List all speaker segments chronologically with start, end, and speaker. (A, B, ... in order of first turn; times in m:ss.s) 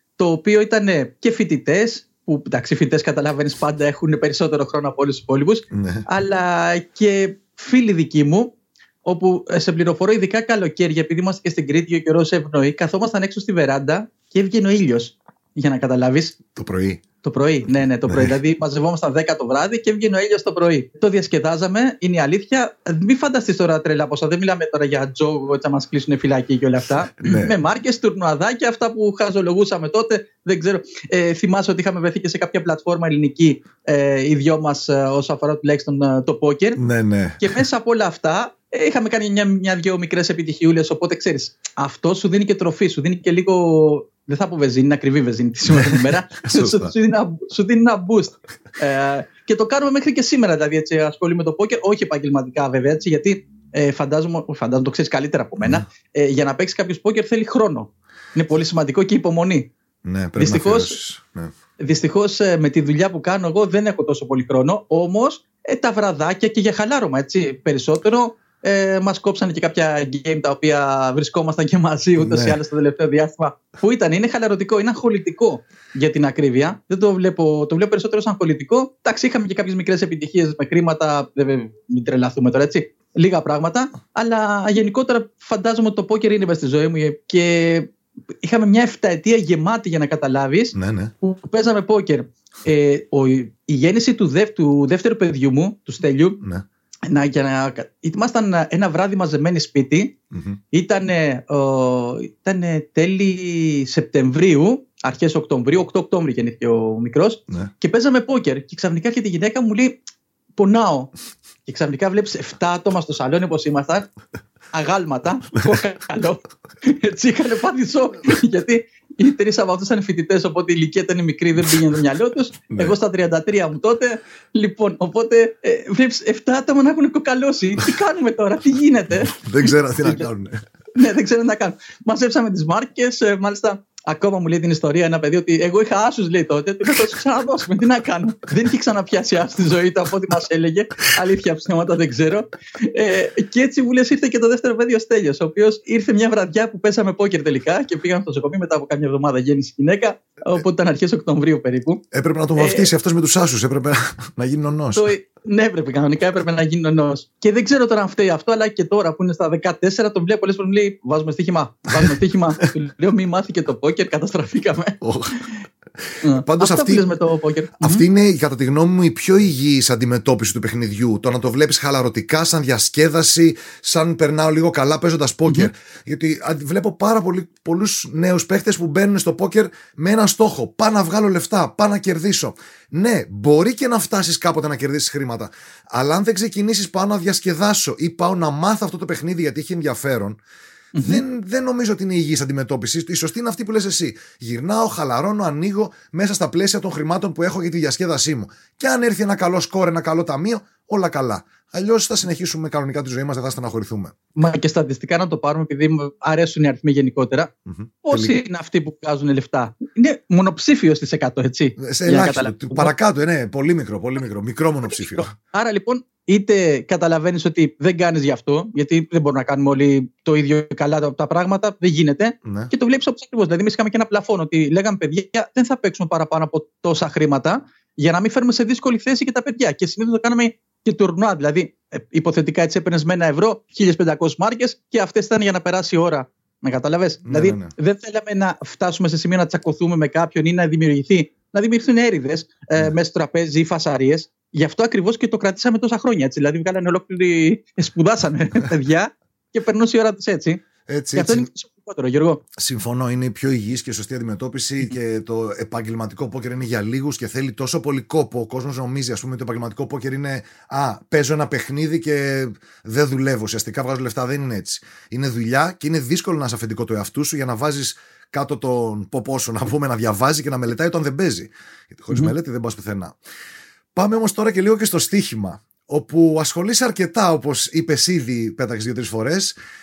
0:00.2-0:16.4 A
0:05.7-0:06.0 B
0:16.6-0:17.0 B
0:17.2-0:36.8 A
0:18.1-0:18.4 B
0:27.2-0:27.6 B
0:36.8-0:37.6 B
0:37.4-0:59.7 A
0:45.7-0:46.9 B
1:00.0-1:01.5 B
1:00.4-1:01.0 A
1:01.8-1:36.4 A
1:12.2-1:12.6 B
1:30.8-1:31.1 B
1:37.1-1:40.2 A
1:40.3-1:40.6 B
1:40.7-1:50.0 A
1:50.6-1:51.1 A
1:51.7-1:54.1 A
1:54.7-2:10.3 A
2:02.7-2:03.0 B
2:09.3-2:10.6 B
2:11.0-2:32.0 A
2:32.1-2:35.1 B
2:32.6-2:32.9 A
2:35.0-2:45.6 A
2:45.0-2:45.5 B
2:46.0-2:47.1 B
2:46.2-2:48.0 A
2:47.8-3:10.4 B
3:10.9-3:11.2 A
3:11.0-3:24.2 B
3:24.4-3:27.5 A
3:27.7-3:28.4 B
3:28.0-3:32.9 A
3:31.8-3:35.3 B
3:35.2-4:10.6 A
3:42.4-3:42.7 B
3:57.3-3:57.7 B
4:10.9-4:11.5 B
4:11.1-4:12.4 A
4:12.6-4:33.2 B
4:34.0-4:39.6 B